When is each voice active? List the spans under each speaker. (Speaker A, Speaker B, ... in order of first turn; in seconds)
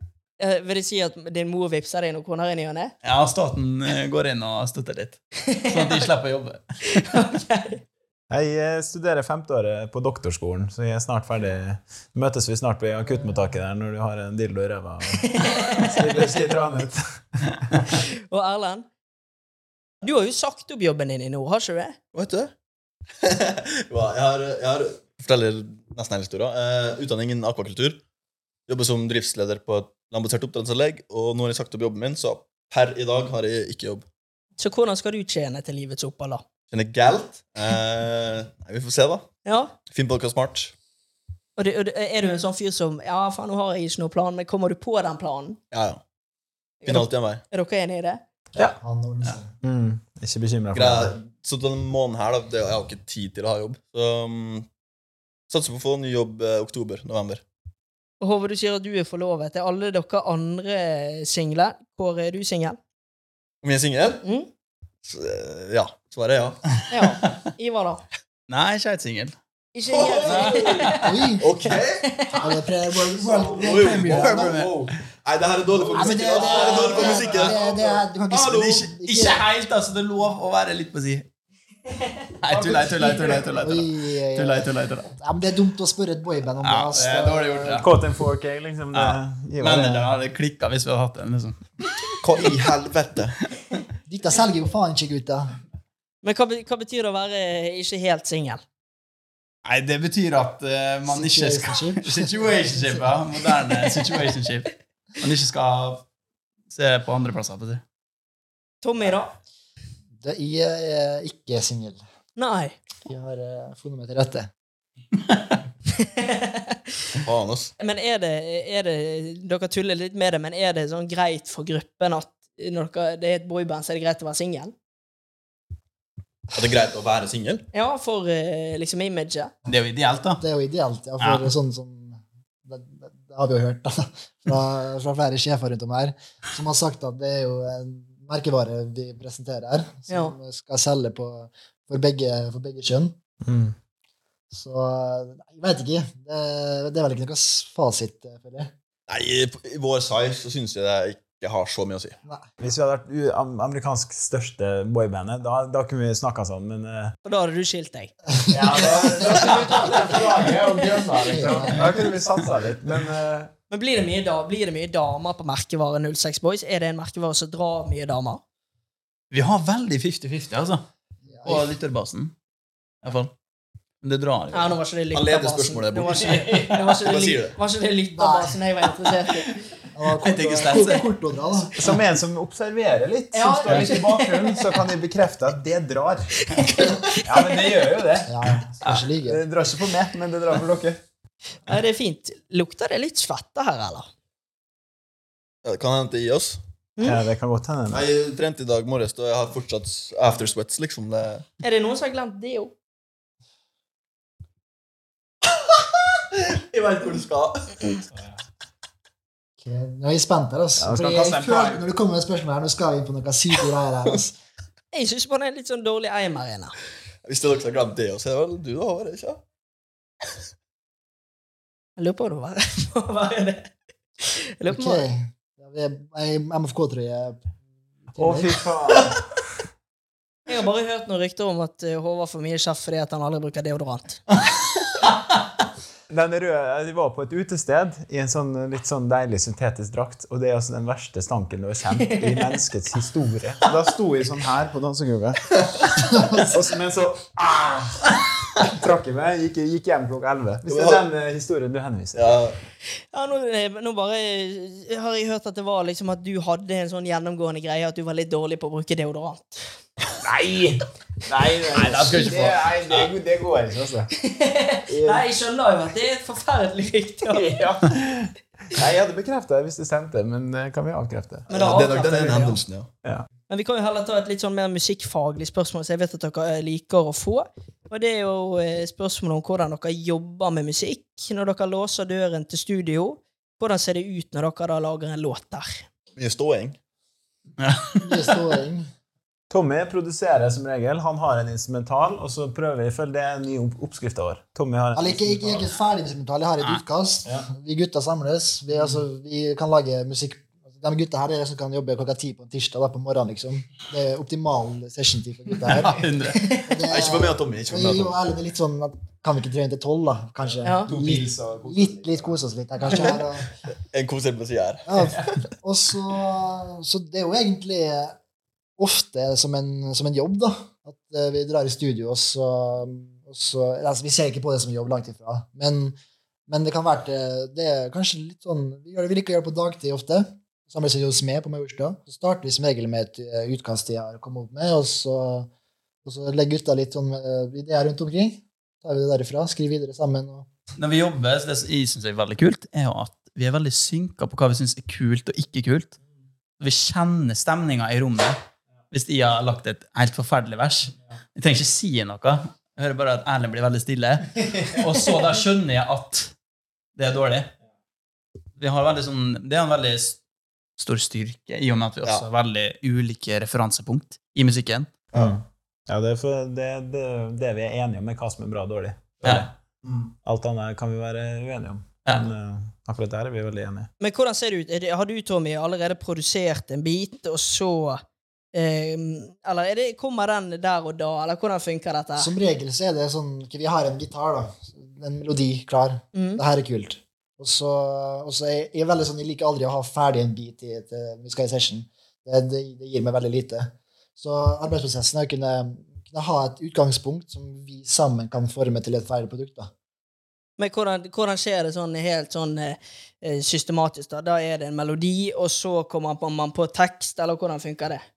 Speaker A: 0.4-2.9, 5.5-6.0, 6.9-7.8, 15.2-16.0, 17.9-18.9, 20.0-22.0, 34.6-36.4, 39.5-39.7, 41.6-45.6, 46.8-48.2, 58.2-62.8, 64.2-64.5, 66.9-68.0, 69.8-71.1, 72.0-72.4, 96.2-98.6, 108.8-109.3, 112.4-112.8, 116.0-116.8, 117.8-124.7, 127.7-129.5, 140.1-140.3, 157.2-158.1, 159.3-160.1, 163.7-168.4, 174.5-179.6, 183.3-184.7, 186.5-187.8, 191.7-194.1, 201.6-202.7, 214.9-216.7, 222.0-223.7, 224.2-225.0, 230.5-234.2, 242.1-242.5, 253.1-259.6, 264.2-267.6, 271.5-272.6, 273.5-285.8, 310.6-310.9, 374.0-378.0, 378.5-382.3, 386.1-386.4, 400.6-408.1
Speaker B: 3.0-6.6, 68.5-69.3, 70.3-71.0, 74.1-74.7, 76.4-77.6, 78.3-81.3, 82.4-85.1, 86.6-87.9, 88.9-91.6, 99.7-106.0, 106.7-107.8, 129.7-130.4, 131.2-131.5, 169.3-170.8, 171.4-172.3, 173.0-173.3, 174.0-174.8, 180.2-181.1, 261.8-263.1, 287.6-288.3, 305.7-306.6, 340.8-346.0, 346.6-348.4, 348.9-356.3, 357.0-357.5, 358.6-360.2, 360.8-364.9
Speaker C: 8.3-17.8, 49.6-51.1, 87.8-90.1, 143.4-143.8, 152.6-157.1, 158.5-163.5, 181.8-186.5, 187.2-188.6, 189.2-191.0, 197.0-198.1, 210.8-211.8, 228.2-229.2, 236.1-245.6, 246.4-252.4, 260.2-264.1, 264.9-265.3, 267.3-271.5, 289.5-295.7, 310.4-312.4, 365.1-369.5, 370.2-373.9
Speaker D: 22.1-22.5, 23.2-28.0, 28.7-34.1, 36.7-39.3, 39.9-40.7, 45.7-46.0, 46.9-47.4, 50.7-54.7, 55.5-57.4, 63.6-64.2, 65.0-66.6, 69.9-72.2, 73.2-78.6, 92.2-93.4, 117.2-117.7, 126.5-127.7, 149.1-152.2, 175.1-177.6, 195.7-196.6, 197.9-201.4, 206.2-207.9, 217.2-219.4, 250.7-251.0, 252.2-252.6, 271.5-272.9, 286.2-286.8, 306.9-308.2, 313.9-315.1, 365.1-365.4, 369.3-370.1
Speaker E: 48.6-49.5, 71.0-71.5, 72.4-74.6, 75.9-79.4, 83.5-87.8, 94.1-95.5, 101.1-103.1, 110.2-112.0, 113.1-114.5, 130.4-143.2, 144.5-148.7, 158.4-159.2, 161.2-161.9, 171.3-171.7, 178.2-178.6, 179.9-181.7, 188.3-189.4, 209.6-214.4, 224.7-227.5, 228.1-228.6, 246.1-246.5, 288.0-288.9, 294.9-306.1, 306.7-313.5, 314.9-318.2, 318.8-326.0, 326.5-335.5, 336.1-340.5, 382.2-399.7